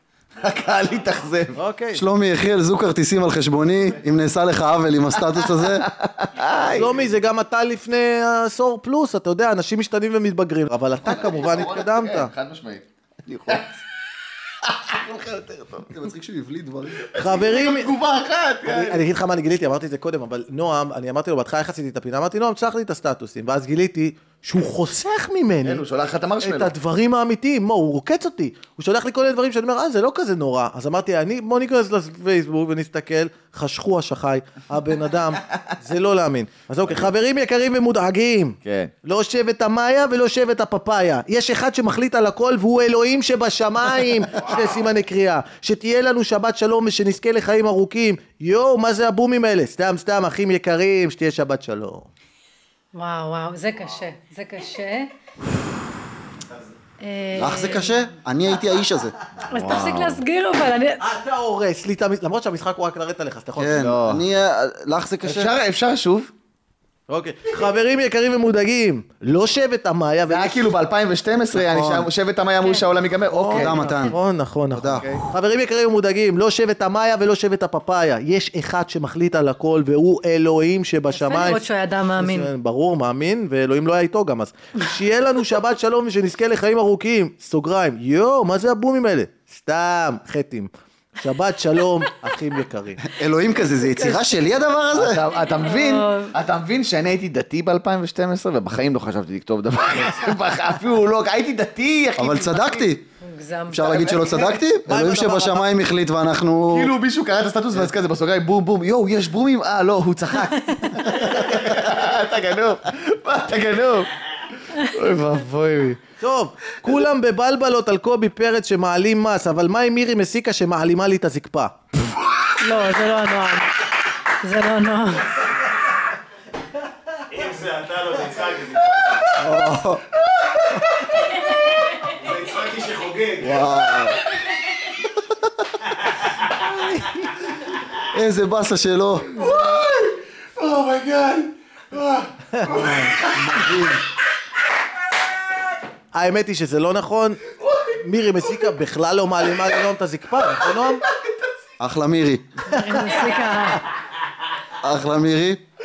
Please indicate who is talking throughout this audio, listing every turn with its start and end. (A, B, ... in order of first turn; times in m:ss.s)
0:00.4-0:01.6 A
0:01.5-0:02.0 B
0:01.9-0:05.9 C
0:05.4-0:07.0 A
0:06.7-0:12.3 B
0:11.0-0:12.8 A
0:13.3-0:13.6 C
0:14.6-0:15.9 A
0:15.9-0:17.0 C
0:17.0-0:19.0 A
0:17.2-0:17.9 B
0:18.6-0:25.8 B
0:25.6-0:26.7 A
0:26.4-0:52.1 B
0:38.6-0:38.9 A
0:52.9-0:55.1 D
0:57.0-0:58.1 D
0:57.3-0:59.2 C
0:59.4-1:00.2 A
0:59.5-1:01.0 D
1:01.0-1:03.9 B
1:03.6-1:05.5 C
1:03.7-1:04.2 A
1:05.2-1:06.3 A
1:07.1-1:10.6 B
1:10.3-1:13.8 A
1:11.7-1:12.0 C
1:13.3-1:21.6 B
1:13.5-1:14.2 C
1:14.7-1:15.0 C
1:14.9-1:15.2 A
1:21.1-1:22.5 D
1:22.2-1:33.0 B
1:33.0-1:35.2 C
1:34.0-1:34.3 D
1:34.9-1:42.9 A
1:35.5-1:36.3 D
1:42.2-1:43.0 C
1:43.2-1:44.1 D
1:43.7-1:46.9 C
1:43.8-1:44.6 A
1:44.9-1:45.7 B
1:46.7-1:54.1 A
1:50.6-1:51.0 D
1:54.7-1:56.0 A
1:56.2-2:01.7 B
2:02.6-2:05.3 D
2:07.3-2:09.3 E
2:09.4-2:10.0 C
2:10.3-2:11.2 A
2:12.1-2:13.6 E
2:13.4-2:14.2 C
2:18.1-2:19.3 C
2:19.3-2:23.8 A
2:23.3-2:24.0 C
2:26.1-2:31.0 B
2:27.6-2:27.9 A
2:31.8-2:32.8 C
2:32.7-2:33.8 D
2:34.8-2:35.6 C